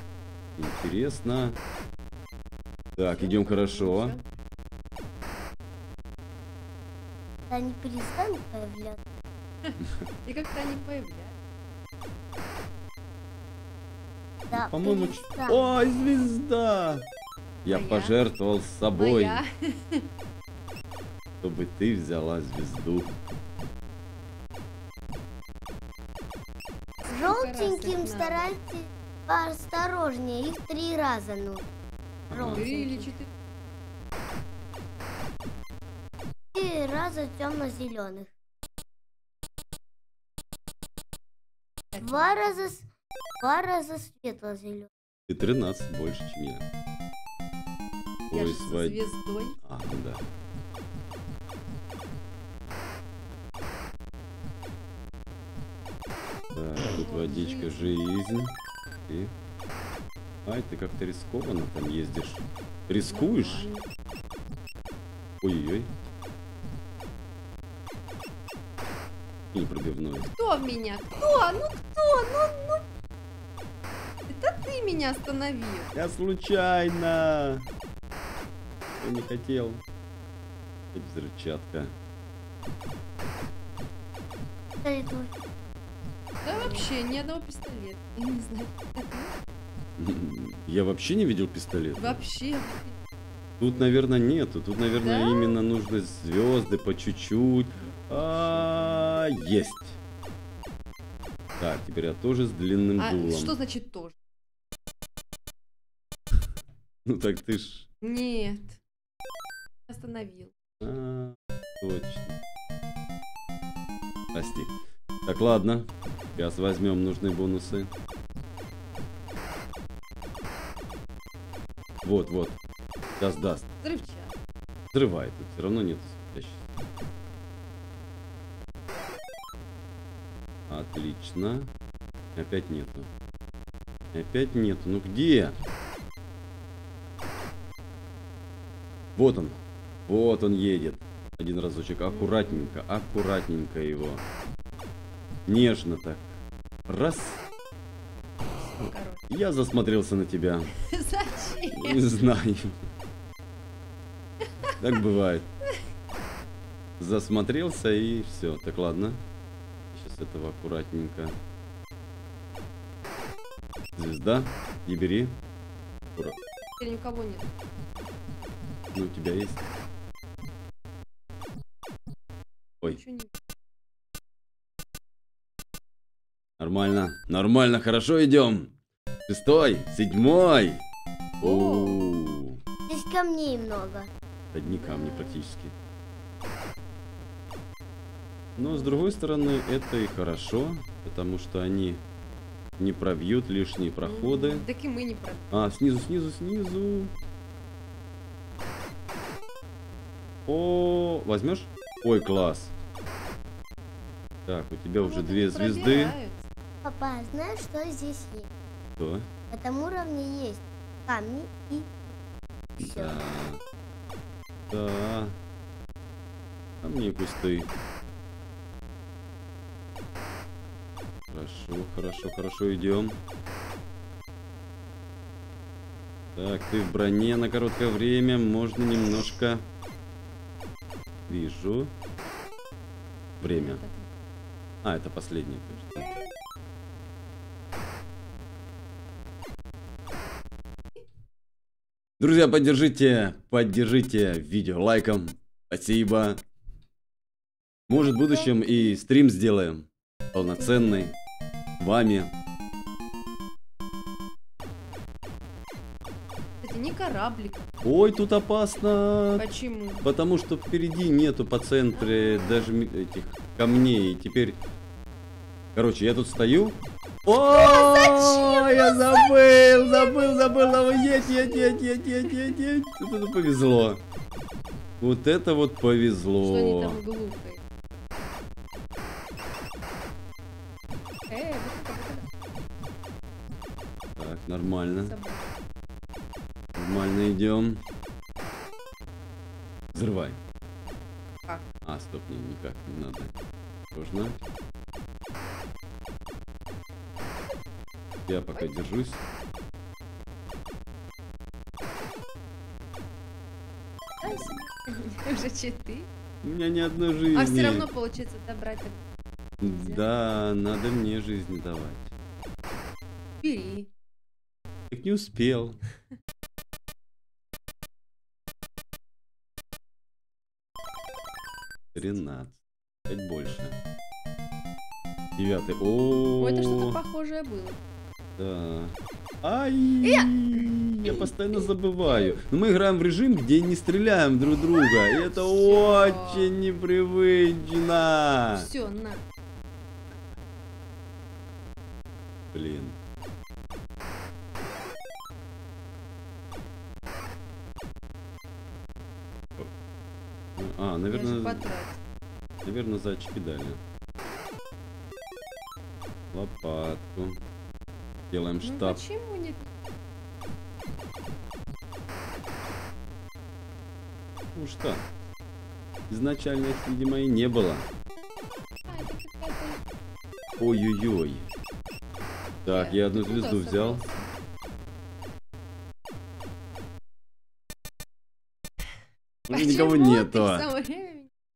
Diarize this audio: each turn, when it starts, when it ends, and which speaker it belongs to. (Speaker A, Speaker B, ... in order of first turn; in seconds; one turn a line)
Speaker A: 0.6-1.6
Speaker A: 3.0-4.2
Speaker B: 3.1-4.2
Speaker C: 7.5-9.0
Speaker B: 9.6-11.3
Speaker C: 14.5-15.7
Speaker A: 14.5-17.0
Speaker A: 17.6-19.4
Speaker B: 17.7-18.2
Speaker B: 18.9-20.1
Speaker A: 21.4-23.1
Speaker B: 27.1-28.5
Speaker C: 27.1-31.7
Speaker A: 32.3-32.6
Speaker C: 32.3-33.1
Speaker B: 32.5-33.3
Speaker C: 36.5-38.3
Speaker B: 41.9-42.6
Speaker C: 42.0-42.9
Speaker C: 43.4-44.9
Speaker A: 45.3-46.6
Speaker A: 48.3-49.0
Speaker B: 48.3-49.6
Speaker A: 49.6-50.2
Speaker A: 56.5-58.5
Speaker B: 56.9-58.0
Speaker A: 60.5-63.7
Speaker B: 62.9-63.9
Speaker A: 65.4-65.9
Speaker A: 69.5-70.3
Speaker B: 70.4-72.8
Speaker B: 74.3-75.9
Speaker A: 75.9-77.7
Speaker A: 79.0-79.8
Speaker A: 80.9-81.9
Speaker C: 84.8-85.3
Speaker B: 86.4-89.4
Speaker C: 86.5-86.8
Speaker A: 90.0-92.3
Speaker B: 92.0-93.0
Speaker A: 93.6-100.0
Speaker B: 94.9-95.6
Speaker B: 97.8-99.2
Speaker A: 101.6-103.5
Speaker B: 103.0-104.1
Speaker A: 107.0-107.9
Speaker B: 108.0-108.8
Speaker B: 109.9-110.5
Speaker A: 110.8-112.3
Speaker A: 114.3-114.7
Speaker A: 115.2-117.9
Speaker A: 122.0-122.6
Speaker A: 123.2-123.7
Speaker B: 123.8-124.3
Speaker A: 124.9-126.7
Speaker A: 130.7-131.7
Speaker A: 132.3-133.1
Speaker A: 134.1-135.6
Speaker A: 139.2-144.2
Speaker B: 142.1-142.8
Speaker A: 145.5-147.4
Speaker B: 148.6-149.2
Speaker A: 149.3-150.7
Speaker B: 150.8-152.0
Speaker A: 151.7-152.8
Speaker A: 154.8-155.5
Speaker A: 157.0-159.2
Speaker A: 159.9-161.3
Speaker A: 163.9-165.4
Speaker B: 166.8-167.5
Speaker A: 168.9-169.6
Speaker B: 172.8-173.3
Speaker A: 176.6-178.7
Speaker A: 179.3-180.8
Speaker A: 181.4-182.6
Speaker B: 181.4-182.0
Speaker C: 182.9-184.1
Speaker A: 184.5-185.7
Speaker C: 184.6-185.2
Speaker B: 184.8-185.2
Speaker B: 188.6-189.6
Speaker A: 188.6-192.0
Speaker A: 192.8-194.6
Speaker B: 194.0-195.7
Speaker A: 195.5-197.1
Speaker A: 200.4-202.7
Speaker A: 204.5-206.1
Speaker B: 205.0-206.5
Speaker C: 206.8-208.5
Speaker A: 209.0-209.2
Speaker C: 209.5-211.9
Speaker C: 212.8-213.2
Speaker A: 212.8-213.6
Speaker A: 214.7-215.3
Speaker A: 216.8-217.7
Speaker A: 221.3-223.2
Speaker A: 226.3-229.6
Speaker A: 231.3-231.9
Speaker A: 233.4-233.8
Speaker B: 233.5-234.1
Speaker A: 234.8-236.1
Speaker B: 235.9-236.2
Speaker A: 242.2-246.4
Speaker A: 247.9-251.1
Speaker C: 247.9-249.0
Speaker C: 250.3-250.9
Speaker A: 251.8-252.3
Speaker B: 256.6-257.7
Speaker A: 257.8-259.4
Speaker B: 259.4-260.0
Speaker A: 260.0-264.6
Speaker B: 261.9-262.7
Speaker A: 265.7-274.0
Speaker B: 267.5-272.5
Speaker A: 275.0-277.0
Speaker B: 276.4-277.6
Speaker B: 281.3-282.3
Speaker A: 284.2-285.1
Speaker B: 285.0-285.5
Speaker A: 286.8-287.8
Speaker A: 289.9-290.4
Speaker A: 291.8-293.3
Speaker A: 293.9-294.4
Speaker A: 298.3-299.2
Speaker B: 304.2-306.1
Speaker A: 306.4-307.9
Speaker B: 307.3-309.0
Speaker B: 309.6-310.0
Speaker A: 309.6-312.1
Speaker B: 313.4-313.9
Speaker A: 314.9-315.8
Speaker A: 321.9-323.8
Speaker A: 325.4-327.0
Speaker B: 326.4-327.8
Speaker A: 328.4-338.7
Speaker B: 330.0-332.4
Speaker B: 334.7-336.6
Speaker B: 338.5-339.2
Speaker A: 342.5-342.9
Speaker A: 350.6-351.7
Speaker B: 351.1-352.0
Speaker A: 352.6-353.8
Speaker A: 356.3-357.4
Speaker A: 358.3-359.0
Speaker B: 358.6-359.7
Speaker A: 364.5-365.0
Speaker A: 366.1-367.9
Speaker B: 368.9-369.8
Speaker A: 370.6-371.5
Speaker A: 372.6-374.0
Speaker B: 372.6-374.2
Speaker A: 379.5-380.7
Speaker B: 379.5-381.3